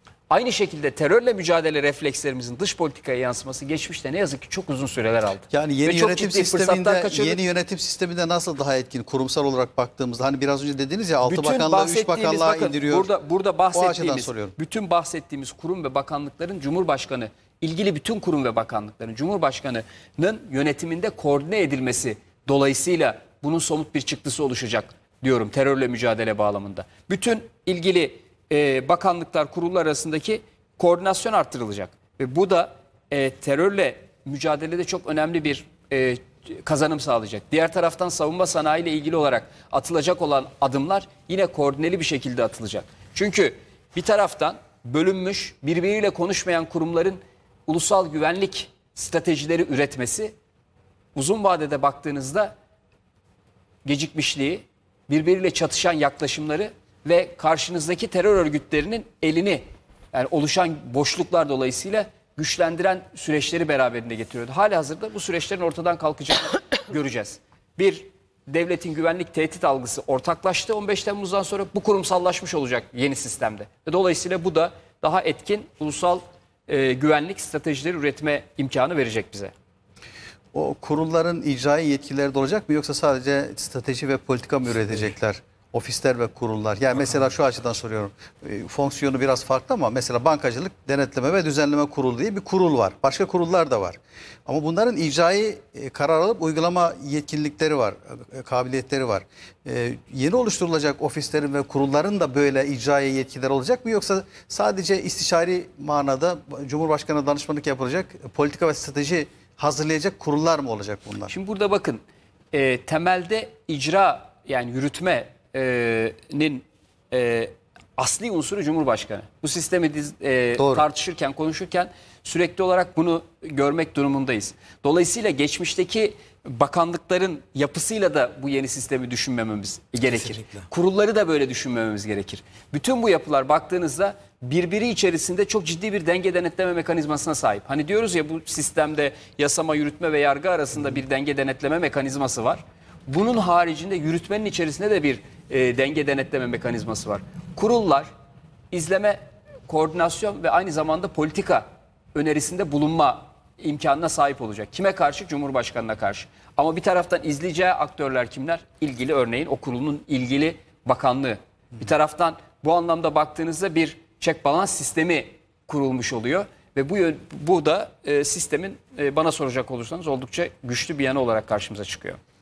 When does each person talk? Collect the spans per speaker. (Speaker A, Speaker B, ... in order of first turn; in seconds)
Speaker A: 0.3-7.4, 11.2-50.3, 51.1-52.5, 53.9-79.5, 111.3-148.1, 148.7-172.2
Speaker B: 5.5-13.1, 13.7-14.5, 80.5-111.3, 120.6-120.9